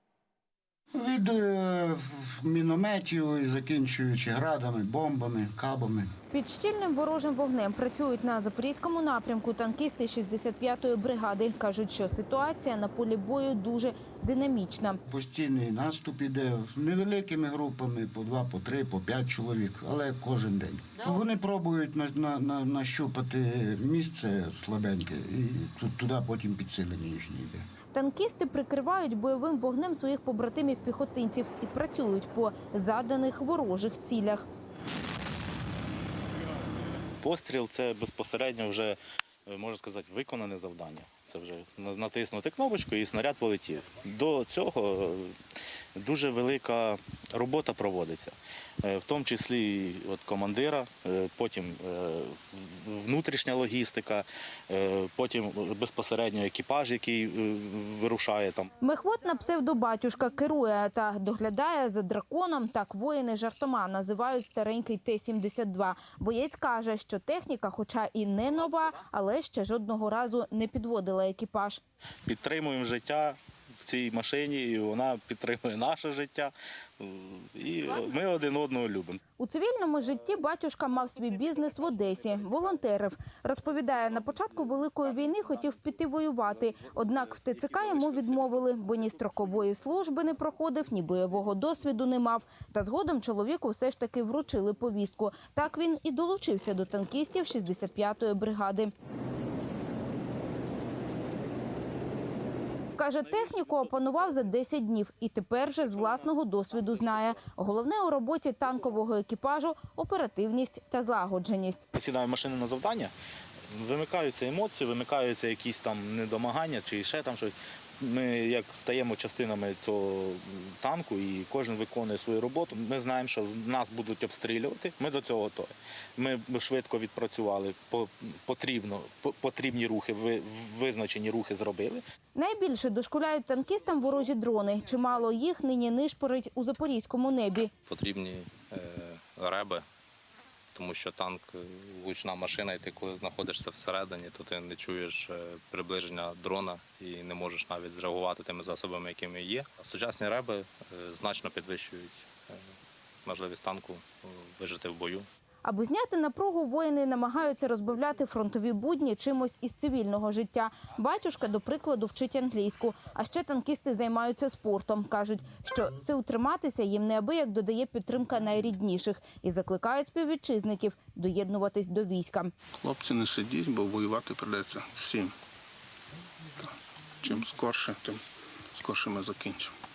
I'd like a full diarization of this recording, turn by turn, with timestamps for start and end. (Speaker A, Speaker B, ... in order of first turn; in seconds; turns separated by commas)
Speaker A: 0.9-6.1, Speaker B: 6.3-15.0, Speaker A: 15.1-27.7, Speaker B: 27.9-34.5, Speaker C: 37.2-45.3, Speaker C: 46.0-58.7, Speaker B: 58.8-71.8, Speaker C: 72.3-79.2, Speaker B: 79.4-98.9, Speaker B: 103.0-111.8, Speaker C: 111.9-113.1, Speaker C: 113.7-132.0, Speaker B: 132.3-137.7, Speaker D: 137.9-139.8, Speaker D: 140.7-152.6, Speaker D: 153.2-155.3, Speaker B: 155.6-172.5, Speaker E: 172.8-175.3, Speaker E: 176.6-178.2, Speaker E: 178.7-179.7